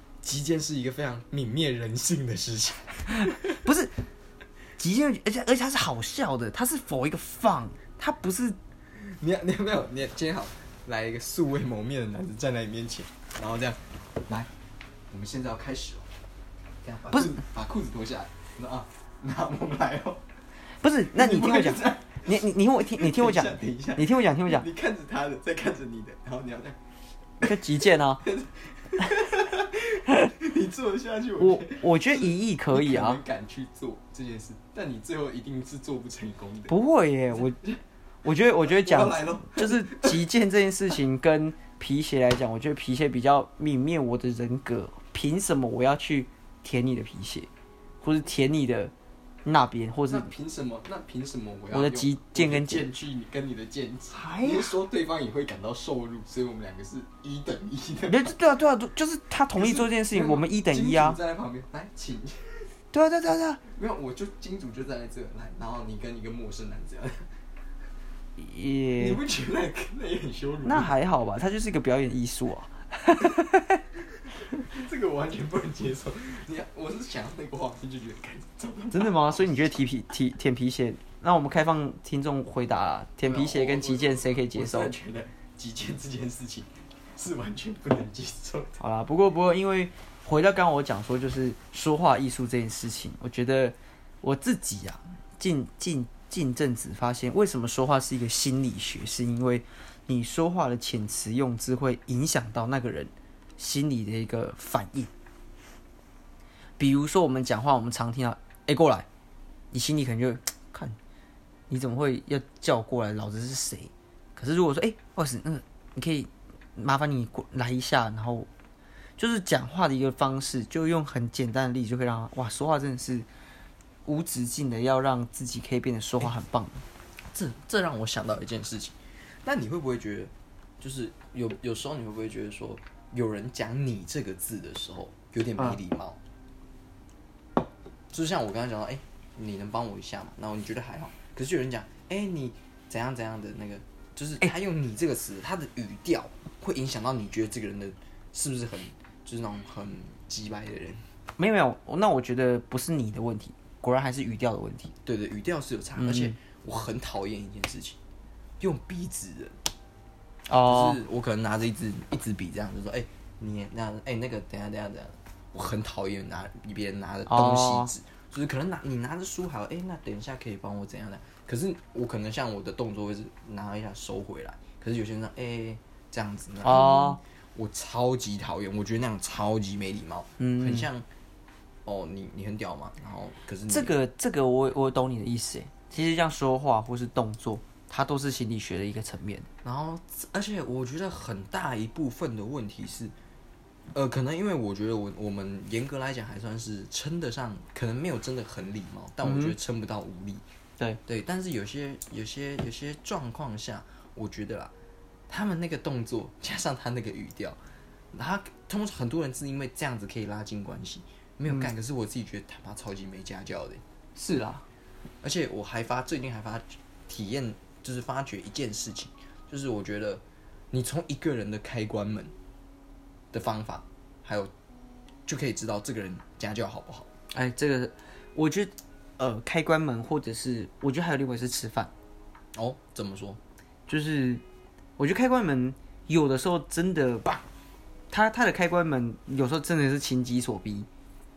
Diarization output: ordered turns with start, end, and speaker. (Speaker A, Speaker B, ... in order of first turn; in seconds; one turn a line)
Speaker A: 0.2-3.6
Speaker B: 3.2-3.9
Speaker B: 4.8-8.6
Speaker A: 8.9-14.5
Speaker A: 15.1-16.1
Speaker A: 16.8-20.2
Speaker B: 17.1-17.4
Speaker B: 20.8-24.6
Speaker A: 21.1-26.8
Speaker B: 27.4-28.2
Speaker A: 28.2-36.7
Speaker B: 31.4-33.2
Speaker B: 36.7-37.6
Speaker A: 37.3-37.8
Speaker B: 38.2-47.5
Speaker A: 38.6-40.2
Speaker B: 48.0-48.9
Speaker B: 49.4-50.3
Speaker A: 50.1-58.3
Speaker B: 51.7-52.9
Speaker B: 54.1-54.7
Speaker B: 58.1-61.2
Speaker A: 59.5-62.7
Speaker B: 62.9-63.6
Speaker A: 63.6-67.2
Speaker B: 68.4-69.2
Speaker A: 69.0-70.9
Speaker B: 70.6-73.8
Speaker A: 74.6-79.8
Speaker B: 78.9-84.9
Speaker A: 83.2-88.8
Speaker B: 88.8-105.1
Speaker B: 106.8-109.1
Speaker B: 109.7-111.0
Speaker B: 111.7-118.5
Speaker B: 119.2-123.3
Speaker B: 124.0-126.8
Speaker A: 127.3-136.2
Speaker A: 138.1-151.0
Speaker B: 151.4-154.9
Speaker A: 155.0-158.0
Speaker B: 156.0-156.3
Speaker A: 158.6-159.6
Speaker B: 160.5-161.0
Speaker A: 160.6-181.1
Speaker B: 167.3-167.9
Speaker B: 176.6-177.2
Speaker B: 180.4-180.9
Speaker A: 181.8-183.9
Speaker B: 183.7-189.5
Speaker A: 189.6-193.1
Speaker A: 193.9-200.4
Speaker B: 199.2-199.5
Speaker A: 201.0-204.7
Speaker A: 205.3-207.6
Speaker A: 208.1-213.8
Speaker B: 214.2-214.6
Speaker A: 215.2-222.3
Speaker A: 223.3-224.5
Speaker A: 225.2-227.1
Speaker B: 227.3-231.9
Speaker A: 232.5-233.4
Speaker B: 233.9-234.4
Speaker B: 235.0-237.3
Speaker B: 238.1-240.9